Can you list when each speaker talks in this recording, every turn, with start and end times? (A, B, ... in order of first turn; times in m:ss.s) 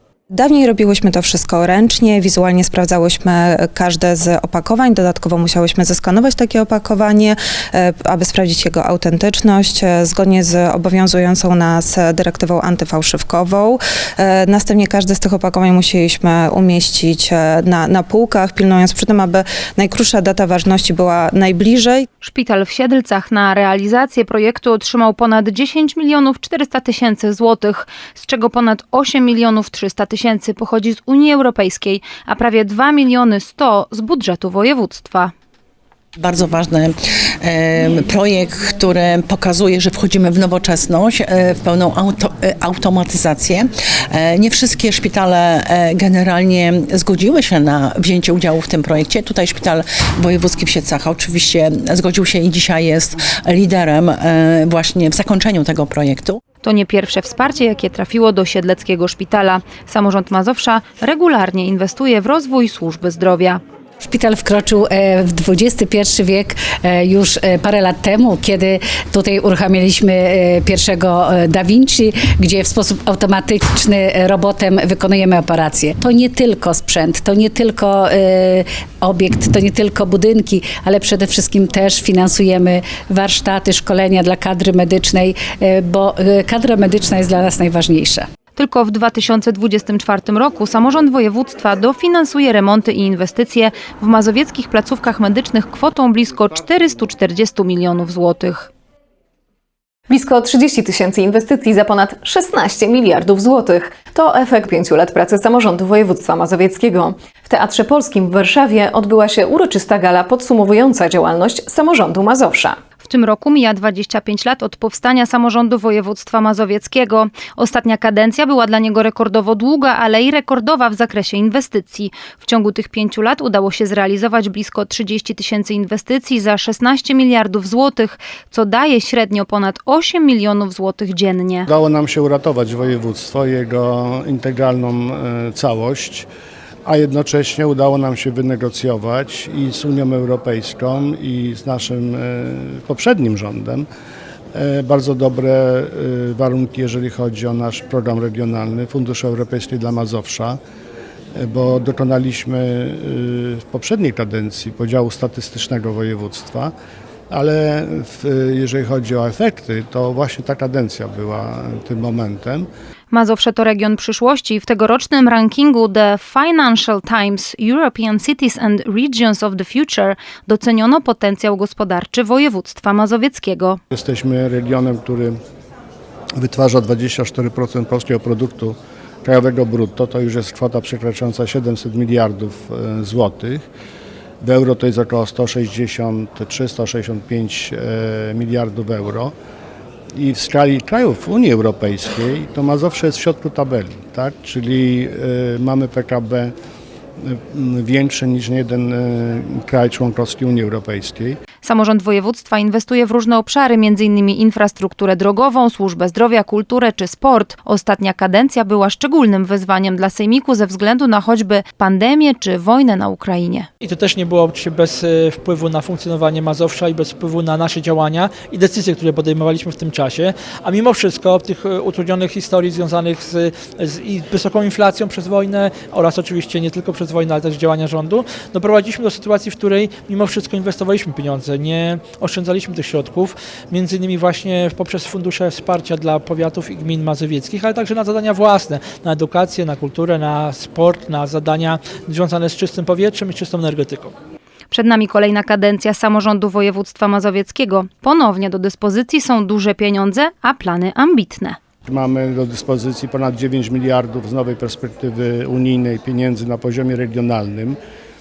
0:00.3-0:22.1 A
0:22.2-0:35.3 B
0:36.2-0:56.4 C
0:56.6-1:03.6 B
1:04.0-1:28.2 D
1:28.6-1:38.7 B
1:40.1-1:52.8 E
1:53.0-2:11.7 B
2:11.7-2:16.3 F
2:16.9-2:23.9 F
2:24.5-2:30.6 F
2:31.4-2:36.7 F
2:37.3-2:42.7 F
2:43.1-2:53.8 B
2:53.9-2:55.4 F
2:56.4-3:03.6 F
3:04.4-3:09.3 F
3:10.2-3:16.5 F
3:17.2-3:21.4 F
3:21.6-3:33.7 B
3:33.8-4:04.1 G
4:04.7-4:11.6 B
4:11.9-4:17.8 F